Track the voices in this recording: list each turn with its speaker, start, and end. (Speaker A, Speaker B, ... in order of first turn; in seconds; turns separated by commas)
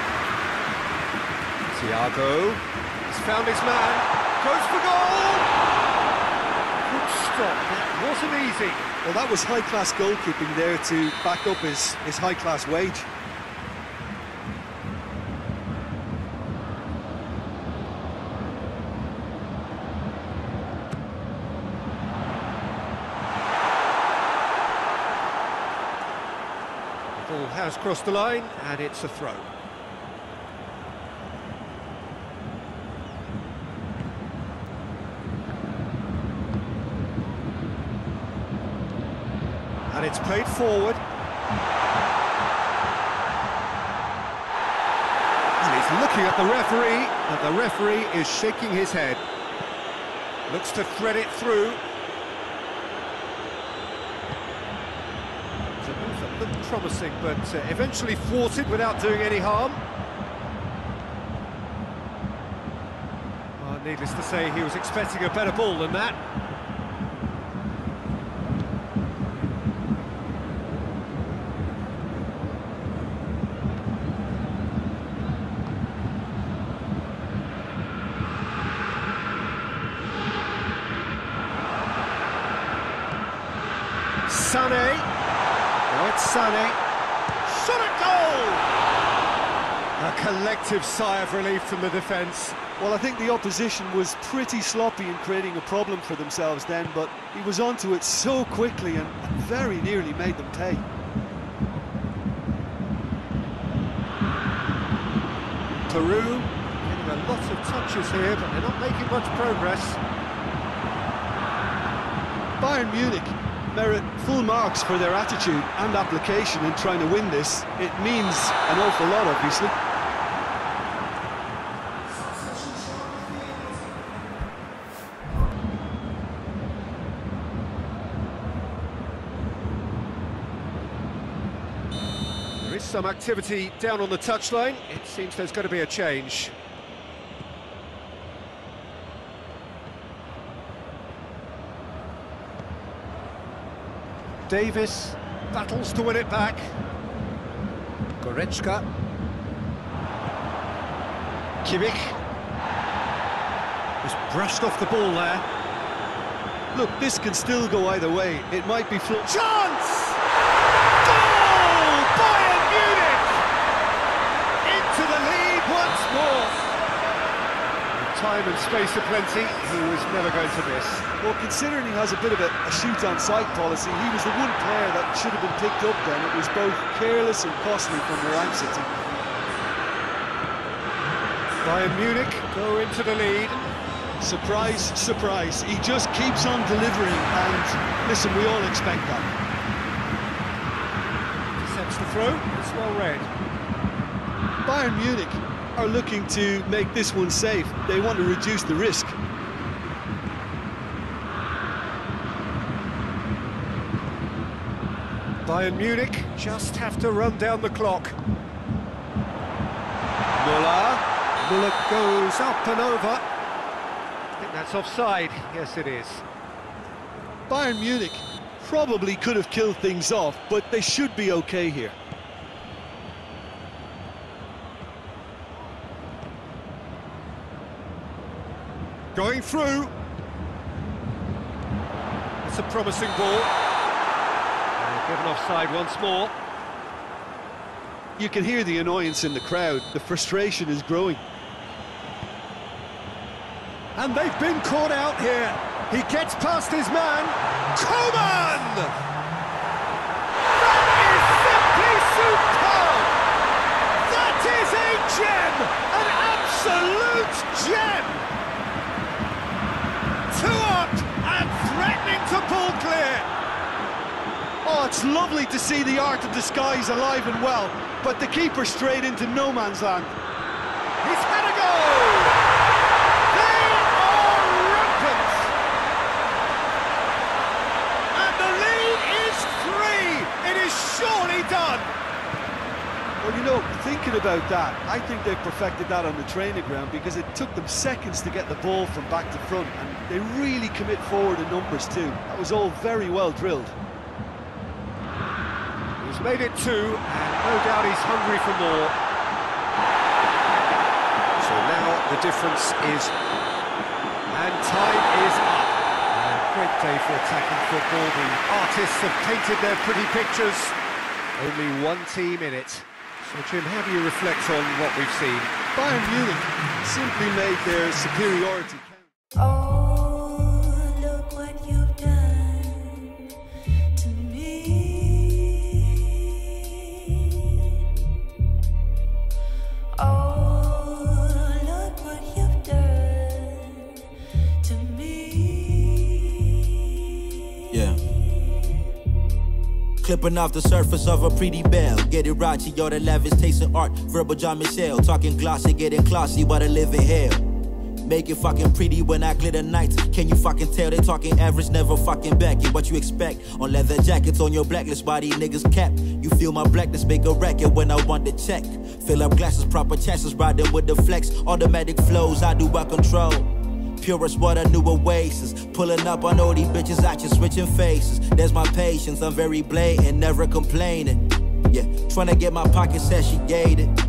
Speaker A: 1.7-5.5, Speaker A: 6.8-8.9, Speaker B: 9.0-13.1, Speaker A: 27.1-29.5, Speaker A: 39.9-41.0, Speaker A: 45.6-49.2, Speaker A: 50.5-51.8, Speaker A: 55.8-59.8, Speaker A: 63.6-66.2, Speaker A: 84.2-85.1, Speaker A: 85.9-86.8, Speaker A: 87.4-88.7, Speaker A: 90.0-92.6, Speaker B: 92.8-100.8, Speaker A: 105.9-110.0, Speaker B: 112.6-119.7, Speaker A: 122.2-123.7, Speaker A: 132.6-136.5, Speaker A: 144.5-146.7, Speaker A: 148.2-148.8, Speaker A: 151.6-152.2, Speaker A: 154.0-155.4, Speaker B: 156.7-159.2, Speaker A: 159.2-160.2, Speaker A: 161.0-163.4, Speaker A: 164.6-166.6, Speaker A: 167.9-171.0, Speaker B: 171.2-178.9, Speaker A: 181.6-183.6, Speaker B: 184.2-189.3, Speaker A: 191.6-193.3, Speaker B: 194.6-199.2, Speaker A: 205.4-208.2, Speaker A: 210.3-213.2, Speaker A: 214.4-216.2, Speaker B: 217.5-221.9, Speaker A: 229.1-229.9, Speaker A: 232.4-233.5, Speaker A: 234.8-236.3, Speaker B: 238.2-241.2, Speaker A: 243.9-249.0, Speaker A: 250.5-253.1, Speaker A: 254.0-258.3, Speaker A: 260.3-263.3, Speaker B: 264.6-270.1, Speaker A: 271.0-272.4, Speaker A: 273.3-275.5, Speaker A: 278.1-281.9, Speaker B: 283.2-293.8, Speaker A: 296.0-298.9, Speaker A: 301.4-303.1, Speaker A: 304.3-310.8, Speaker A: 311.4-315.5, Speaker B: 315.8-319.1, Speaker C: 319.4-320.3, Speaker C: 321.0-322.3, Speaker C: 330.0-330.4, Speaker C: 332.5-332.9, Speaker D: 337.7-338.1, Speaker D: 340.0-347.4, Speaker D: 348.0-373.9